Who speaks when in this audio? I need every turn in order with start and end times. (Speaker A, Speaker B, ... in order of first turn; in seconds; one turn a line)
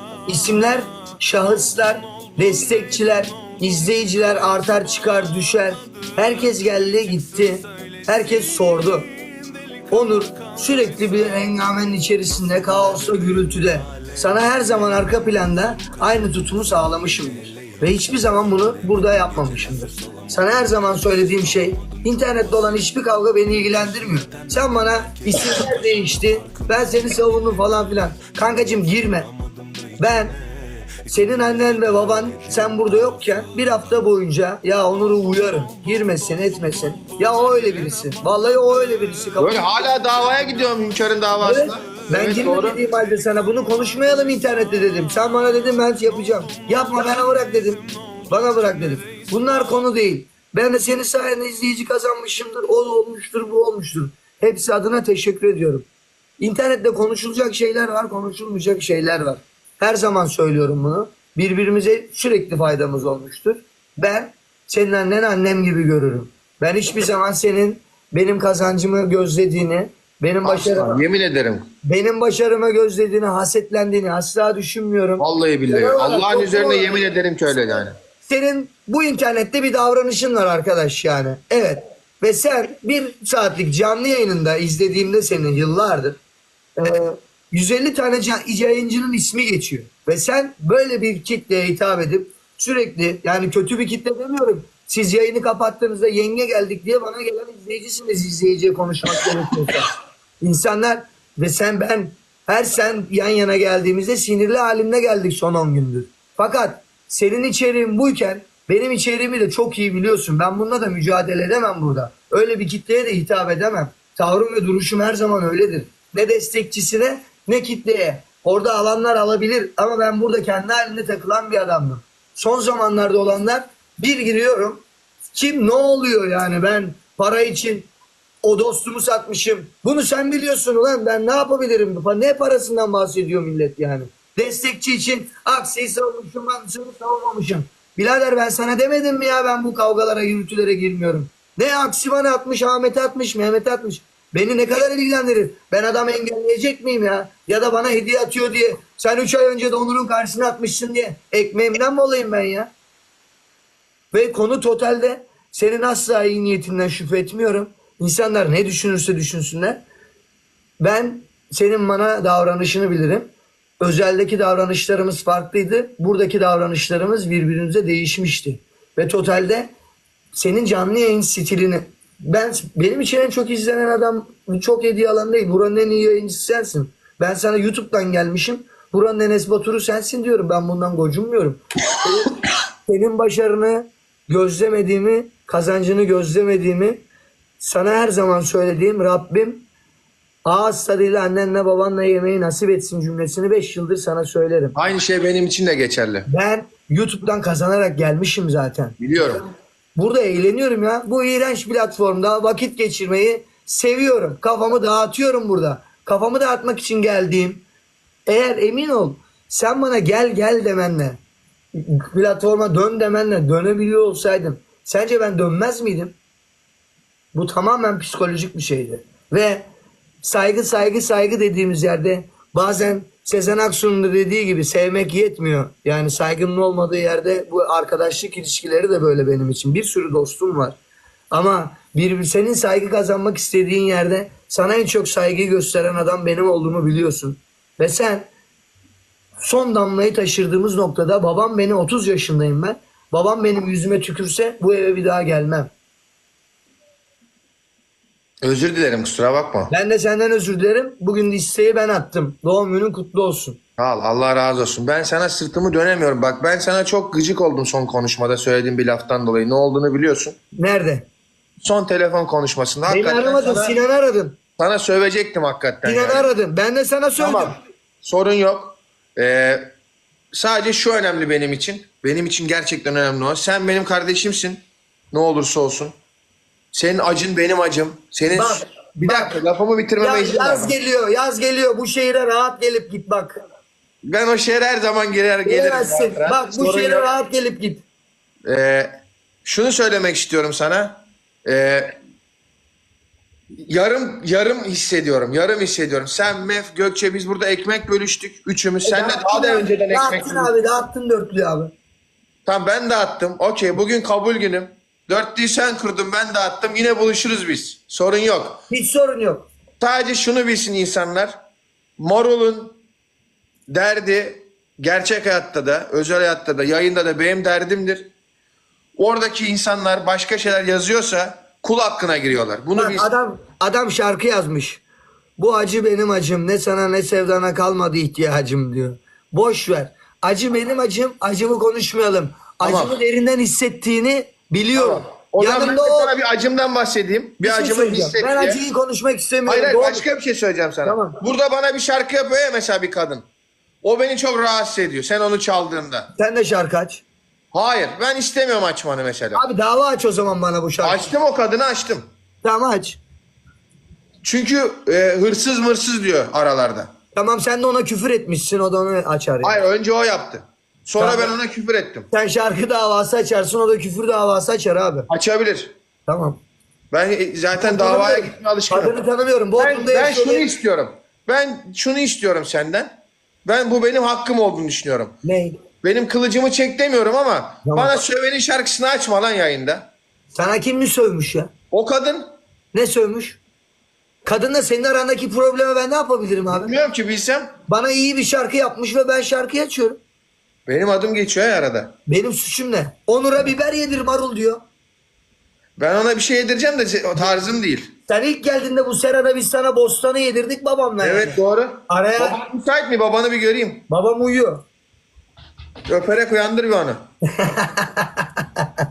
Speaker A: 0.3-9.1
Speaker A: 9.9-29.3
Speaker A: 30.0-30.3
Speaker A: 31.1-39.7
Speaker B: 39.4-42.8
Speaker A: 41.4-55.9
Speaker A: 56.4-71.0
Speaker B: 70.4-71.7
Speaker A: 71.8-77.0
Speaker B: 75.2-78.0
Speaker A: 78.2-86.2
Speaker A: 86.8-127.9
Speaker A: 128.4-152.7
Speaker A: 154.1-159.8
Speaker A: 160.8-163.3
Speaker A: 163.8-169.7
Speaker A: 170.3-187.1
Speaker A: 187.6-189.7
Speaker A: 190.4-194.8
Speaker B: 194.7-196.3
Speaker A: 196.3-199.4
Speaker B: 199.0-199.4
Speaker A: 199.9-207.6
Speaker A: 208.3-211.2
Speaker A: 211.7-216.2
Speaker A: 217.3-219.7
Speaker A: 220.2-230.8
Speaker A: 231.3-238.3
Speaker A: 239.4-245.7
Speaker B: 248.4-249.7
Speaker A: 249.7-253.6
Speaker B: 253.8-260.3
Speaker A: 260.6-261.1
Speaker B: 261.6-263.8
Speaker A: 262.9-264.4
Speaker B: 264.6-266.3
Speaker A: 265.8-267.6
Speaker B: 267.2-269.7
Speaker B: 270.3-274.6
Speaker B: 275.1-275.9
Speaker B: 276.7-280.7
Speaker A: 278.3-279.4
Speaker A: 280.0-283.4
Speaker B: 284.0-287.1
Speaker A: 285.4-287.8
Speaker B: 288.5-288.9
Speaker B: 289.4-291.9
Speaker B: 293.7-300.5
Speaker A: 298.8-301.7
Speaker B: 302.4-308.6
Speaker A: 308.7-309.5
Speaker B: 309.8-311.4
Speaker B: 312.0-312.8
Speaker B: 313.7-318.1
Speaker B: 319.0-323.1
Speaker A: 322.8-324.8
Speaker A: 325.4-336.1
Speaker B: 332.6-333.0
Speaker B: 334.8-338.6
Speaker A: 337.4-340.1
Speaker B: 339.4-343.2
Speaker A: 340.8-341.2
Speaker B: 343.8-346.1
Speaker A: 346.1-347.0
Speaker B: 347.5-349.4
Speaker A: 349.3-351.1
Speaker B: 350.8-352.0
Speaker A: 352.4-353.0
Speaker B: 354.2-356.9
Speaker A: 357.1-359.6
Speaker B: 359.4-362.1
Speaker A: 361.0-361.3
Speaker A: 362.1-365.1
Speaker B: 365.1-365.7
Speaker A: 366.1-366.4
Speaker B: 366.9-369.0
Speaker A: 367.5-370.5
Speaker B: 369.6-372.9
Speaker B: 373.4-375.1
Speaker A: 375.2-375.6
Speaker B: 375.8-379.9
Speaker A: 377.6-378.0
Speaker A: 380.3-381.5
Speaker B: 381.7-382.2
Speaker A: 382.7-383.4
Speaker A: 384.2-386.8
Speaker B: 386.5-387.5
Speaker A: 387.7-390.0
Speaker B: 390.7-391.9
Speaker A: 392.1-394.6
Speaker B: 395.8-397.9
Speaker A: 398.1-402.4
Speaker B: 401.0-403.8
Speaker A: 403.9-404.6
Speaker B: 405.9-407.0
Speaker A: 407.3-408.6